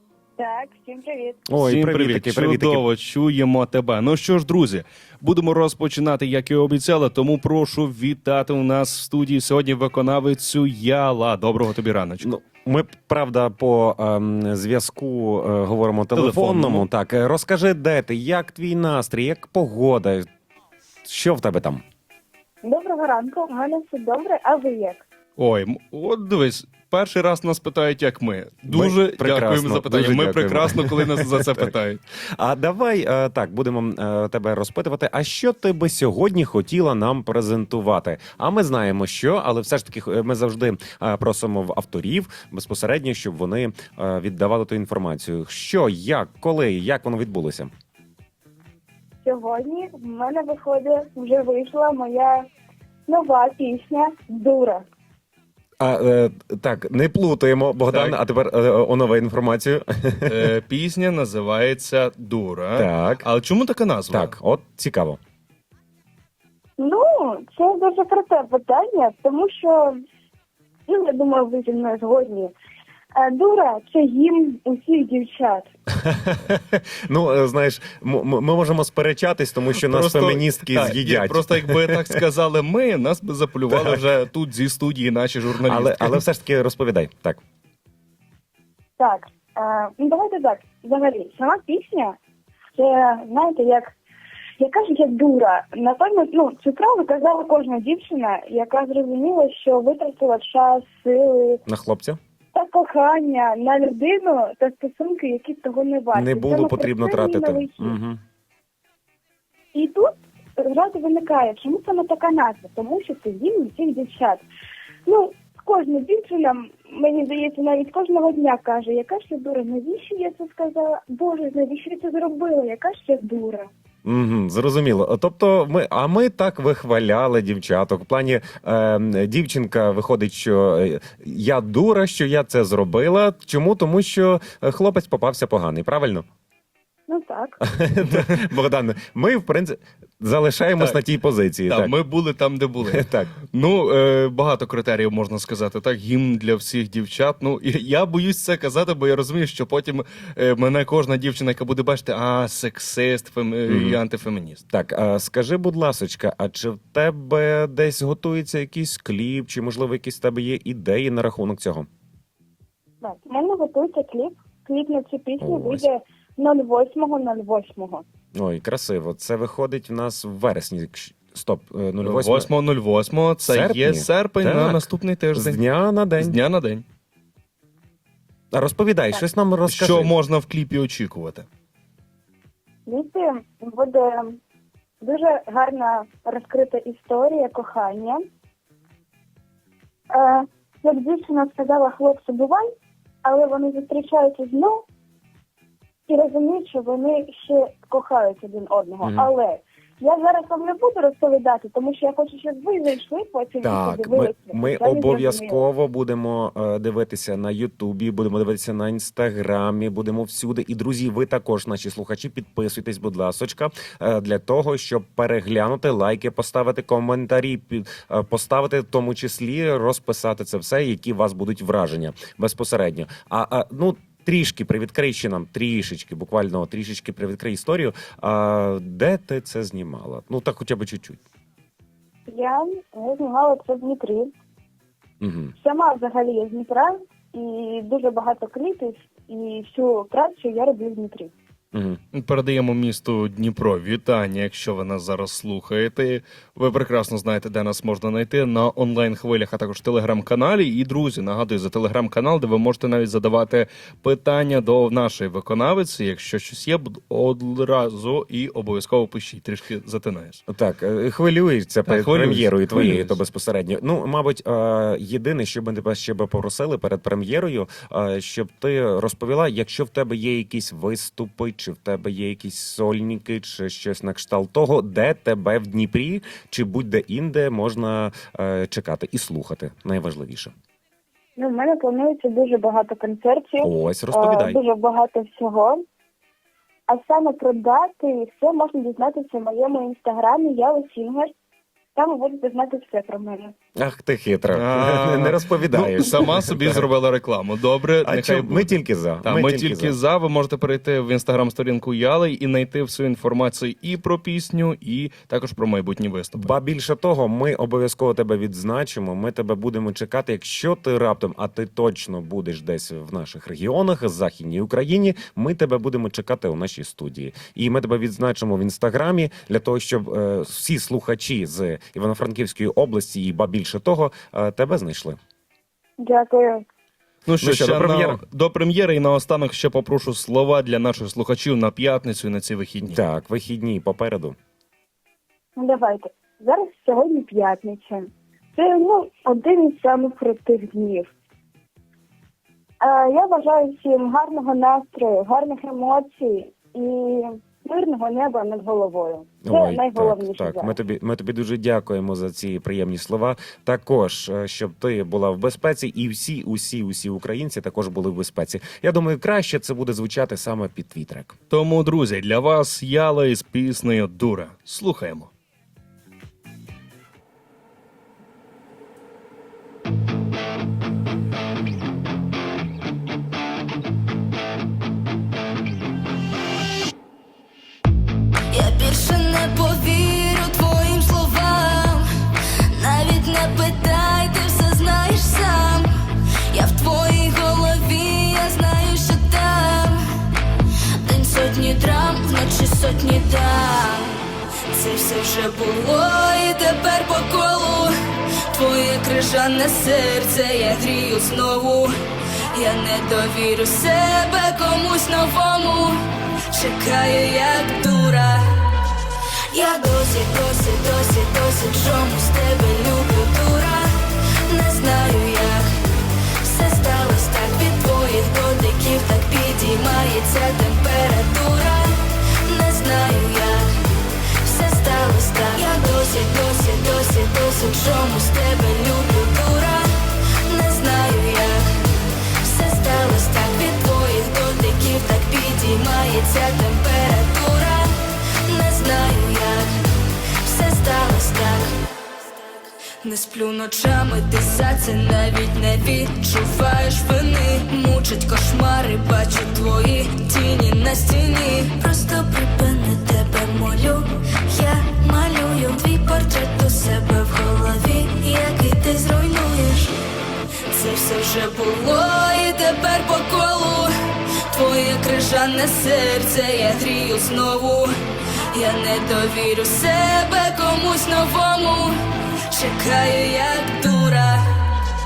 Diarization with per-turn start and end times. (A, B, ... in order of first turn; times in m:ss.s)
0:00.4-0:01.4 A
0:01.5-0:02.8 B
0:01.6-0:12.3 C
0:12.2-0:20.3 B
0:16.2-0:16.9 C
0:21.1-0:21.8 B
0:22.6-0:25.0 A
0:25.4-0:32.0 C
0:28.7-0:31.7 B
0:32.3-0:47.7 B
0:49.2-0:52.5 A
0:53.1-0:54.9 A
0:55.8-1:00.5 B
0:57.9-0:58.2 C
1:00.3-1:04.3 C
1:02.8-1:03.3 B
1:04.1-1:05.2 B
1:06.8-1:10.0 A
1:10.9-1:12.5 A
1:13.2-1:15.7 A
1:16.0-1:22.2 B
1:19.8-1:26.2 C
1:23.7-1:24.0 B
1:25.6-1:27.4 B
1:29.0-1:32.2 A
1:32.8-1:33.9 A
1:34.6-1:41.6 A
1:41.7-1:42.2 B
1:42.5-1:48.0 A
1:46.1-1:48.2 B
1:49.7-1:54.4 A
1:55.1-2:03.7 A
2:04.0-2:16.2 B
2:17.1-2:17.6 A
2:17.6-2:21.9 B
2:18.0-2:18.4 C
2:21.7-2:34.6 C
2:22.9-2:23.3 B
2:33.7-2:34.0 B
2:34.7-2:41.9 B
2:43.0-2:48.1 A
2:45.4-2:45.9 B
2:48.4-2:52.5 B
2:52.0-2:55.6 C
2:53.4-2:56.4 B
2:56.2-2:56.8 C
2:58.5-3:00.1 B
2:59.7-3:01.5 C
3:02.9-3:04.4 A
3:05.0-3:08.2 A
3:10.1-3:12.7 A
3:13.2-3:14.8 A
3:16.1-3:25.6 A
3:19.0-3:19.3 B
3:23.6-3:51.2 B
3:52.3-3:54.3 A
3:55.2-3:55.5 B
3:55.6-4:01.3 A
4:01.7-4:02.0 B
4:02.1-4:20.4 C
4:20.5-4:40.5 B
4:21.9-4:23.2 C
4:41.4-4:45.8 A
4:43.6-4:44.6 B
4:46.9-4:51.3 A
4:52.0-4:53.5 A
4:53.8-4:56.8 B
4:54.5-5:06.5 C
4:58.0-5:00.0 B
5:06.4-5:25.2 B
5:26.0-5:26.6 A
5:27.3-5:33.0 C
5:27.4-5:28.2 B
5:32.8-5:34.4 B
5:35.6-5:41.1 A
5:42.8-5:50.8 A
5:49.4-6:01.4 B
6:01.5-6:05.3 C
6:18.5-6:30.0 D
6:31.0-6:41.9 D
6:42.5-6:48.9 D
6:49.5-7:21.8 D
7:23.0-7:40.0 D
7:40.7-7:48.0 D
7:48.5-7:54.8 D